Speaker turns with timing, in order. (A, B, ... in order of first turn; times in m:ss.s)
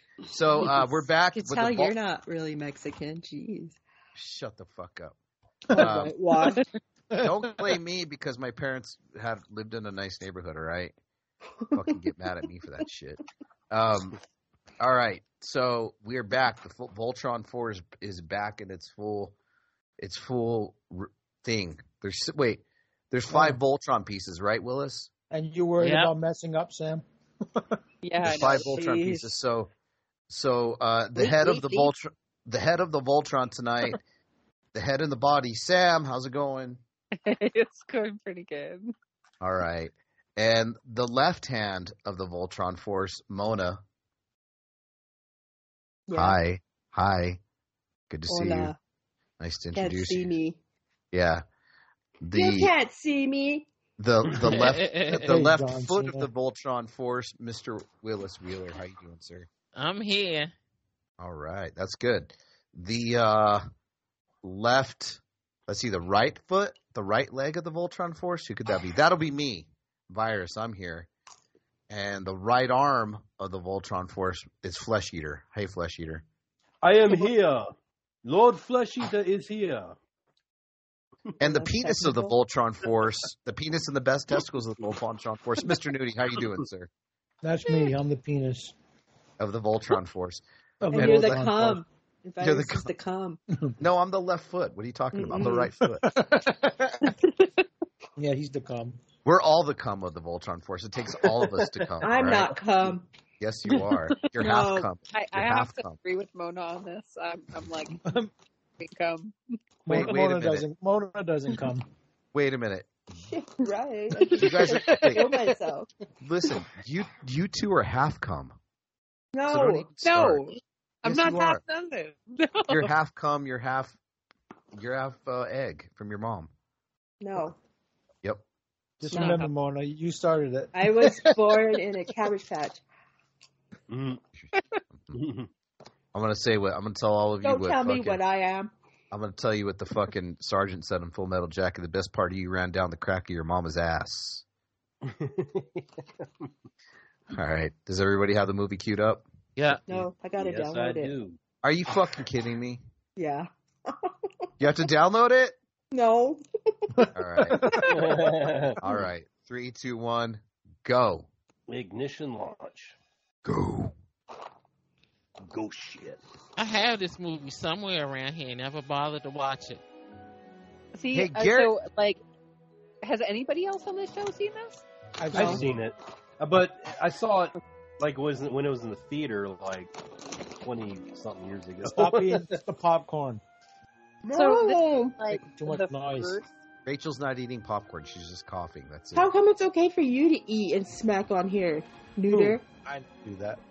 0:00.3-0:02.0 A
0:00.6-0:03.8 B
0:04.2-0:05.2 A
0:05.7-0:06.2 A
0:05.7-0:06.7 B
0:07.1-0:07.4 C
0:07.2-0:10.9 A
0:11.6-0:11.9 B
0:11.8-0:14.2 A
0:14.8-0:19.4 A
0:20.0-0:25.1 A
0:23.3-0:23.6 C
0:25.3-0:27.0 C
0:25.8-0:26.1 D
0:28.0-0:28.8 E
0:28.2-0:29.7 A
0:28.2-0:29.3 B
0:30.3-0:34.0 A
0:31.2-0:31.9 E
0:34.7-0:36.8 A
0:37.2-0:38.9 E
0:39.4-0:43.8 A
0:46.1-0:46.4 B
0:46.1-0:47.4 A
0:48.1-0:48.7 A
0:48.3-0:48.8 B
0:49.4-0:50.3 A
0:49.7-0:50.6 B
0:51.1-0:51.4 A
0:52.2-0:52.7 A
0:52.4-0:53.7 B
0:54.0-0:59.5 A
0:54.5-0:55.2 D
0:55.2-0:56.3 C
0:59.8-1:00.5 D
1:01.2-1:03.6 A
1:04.4-1:11.1 A
1:11.9-1:16.2 A
1:16.8-1:17.7 F
1:18.2-1:20.0 F
1:21.4-1:26.9 A
1:21.4-1:22.1 F
1:27.4-1:28.7 C
1:29.4-1:31.5 A
1:30.8-1:31.8 C
1:30.9-1:33.4 B
1:32.4-1:32.9 A
1:33.8-1:36.0 A
1:35.1-1:35.7 B
1:35.9-1:37.2 C
1:38.2-1:39.0 C
1:39.2-1:42.6 A
1:42.0-1:43.1 B
1:43.4-1:46.0 A
1:44.4-1:44.9 B
1:45.1-1:48.0 E
1:48.0-1:48.3 C
1:48.8-1:49.4 E
1:49.9-1:51.9 C
1:49.9-1:50.7 A
1:52.3-1:53.1 A
1:53.3-1:55.9 B
1:54.3-1:55.3 A
1:54.6-1:55.3 C
1:56.2-1:58.6 A
1:59.3-1:59.9 B
1:59.5-2:00.4 A
2:00.0-2:02.9 E
2:01.0-2:01.6 A
2:02.7-2:04.0 A
2:04.7-2:06.5 A
2:07.2-2:07.6 B
2:09.0-2:11.8 C
2:09.1-2:09.5 E
2:09.1-2:09.5 B
2:10.7-2:12.8 B
2:13.9-2:14.2 F
2:14.4-2:15.2 A
2:15.1-2:15.5 F
2:16.1-2:18.2 A
2:17.4-2:18.7 B
2:19.1-2:24.4 A
2:25.0-2:26.5 F
2:27.3-2:29.2 A
2:29.9-2:31.1 B
2:30.4-2:31.4 F
2:31.6-2:32.8 A
2:33.2-2:34.1 B
2:34.6-2:35.6 A
2:35.9-2:37.1 B
2:37.0-2:37.9 C
2:37.1-2:38.0 A
2:37.6-2:38.2 B
2:37.9-2:38.8 F
2:38.8-2:41.3 A
2:41.7-2:43.0 F
2:43.5-2:43.9 A
2:45.4-2:46.2 F
2:46.6-2:49.8 D
2:51.0-2:52.2 E
2:51.1-2:51.7 A
2:53.0-2:54.8 E
2:55.2-2:55.8 C
2:55.3-3:00.0 F
2:55.4-2:55.6 B
3:00.6-3:02.6 F
3:01.8-3:03.4 C
3:04.2-3:05.2 B
3:04.3-3:06.5 E
3:05.3-3:06.4 C
3:06.9-3:09.3 A
3:09.1-3:12.6 B
3:12.3-3:12.6 F
3:12.8-3:13.6 C